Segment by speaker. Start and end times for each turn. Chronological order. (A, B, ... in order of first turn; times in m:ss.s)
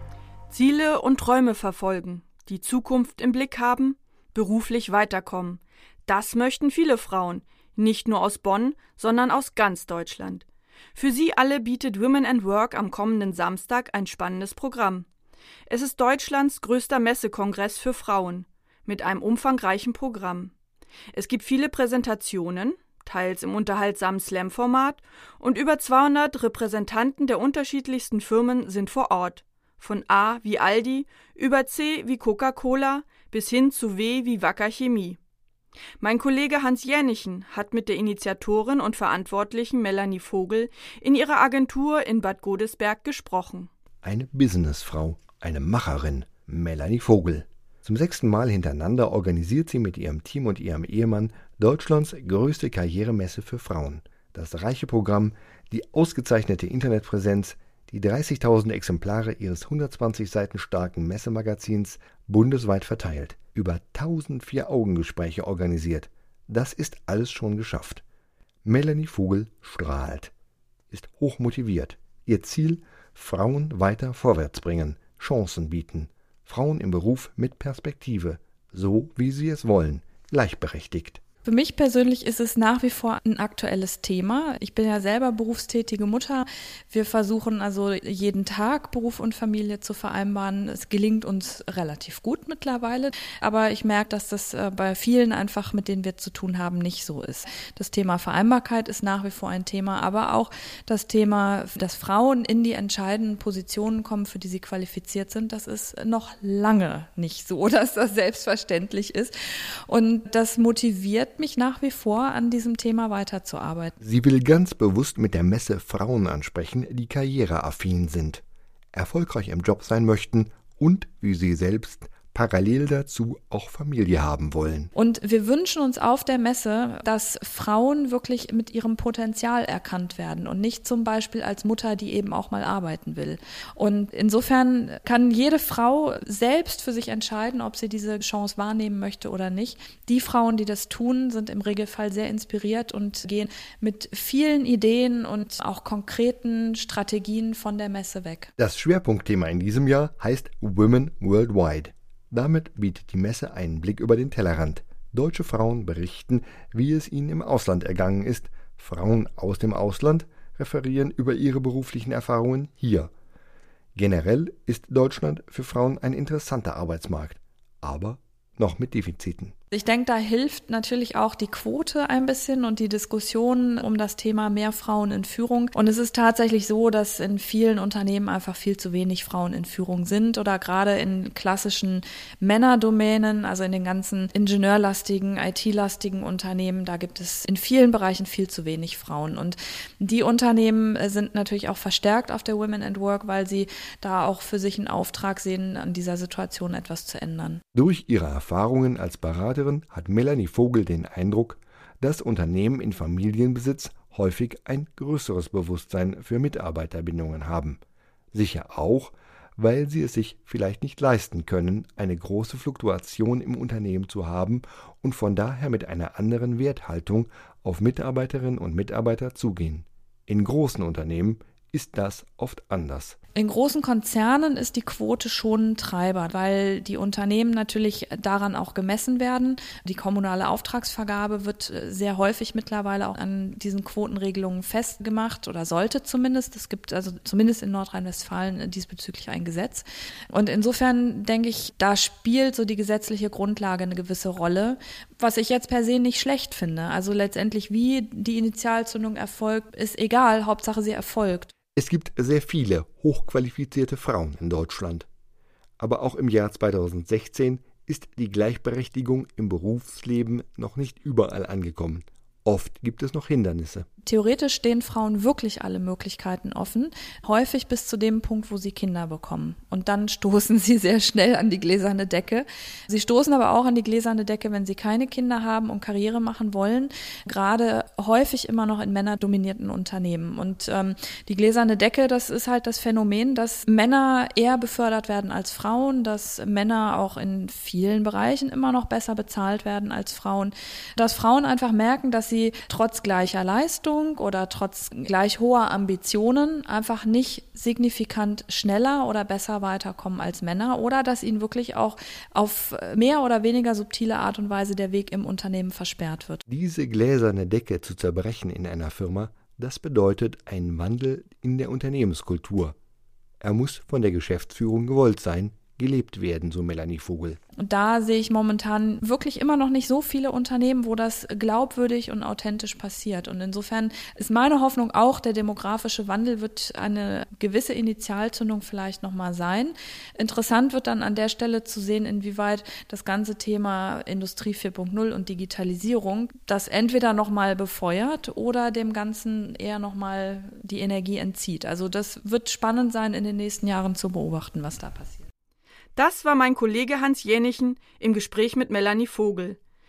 0:00.5-0:10.4 A
0:11.0-0:15.1 A
0:15.7-0:20.5 A
0:21.1-0:35.2 A
0:36.0-0:43.7 A
0:44.0-1:08.0 B
1:08.6-1:10.3 B
1:10.9-1:21.2 B
1:21.4-1:49.4 C
1:49.9-1:54.0 C
1:54.0-2:04.9 B
2:05.0-2:28.5 C
2:28.6-2:43.1 B
2:44.0-2:49.5 B
2:49.7-3:17.6 C
3:17.8-3:27.8 B
3:28.3-3:43.2 B
3:43.4-4:11.5 C
4:11.8-4:15.1 B
4:15.8-4:23.9 B
4:24.0-5:06.4 C
5:06.5-5:12.8 B
5:13.4-5:17.4 B
5:17.6-5:45.3 C
5:46.0-5:49.6 A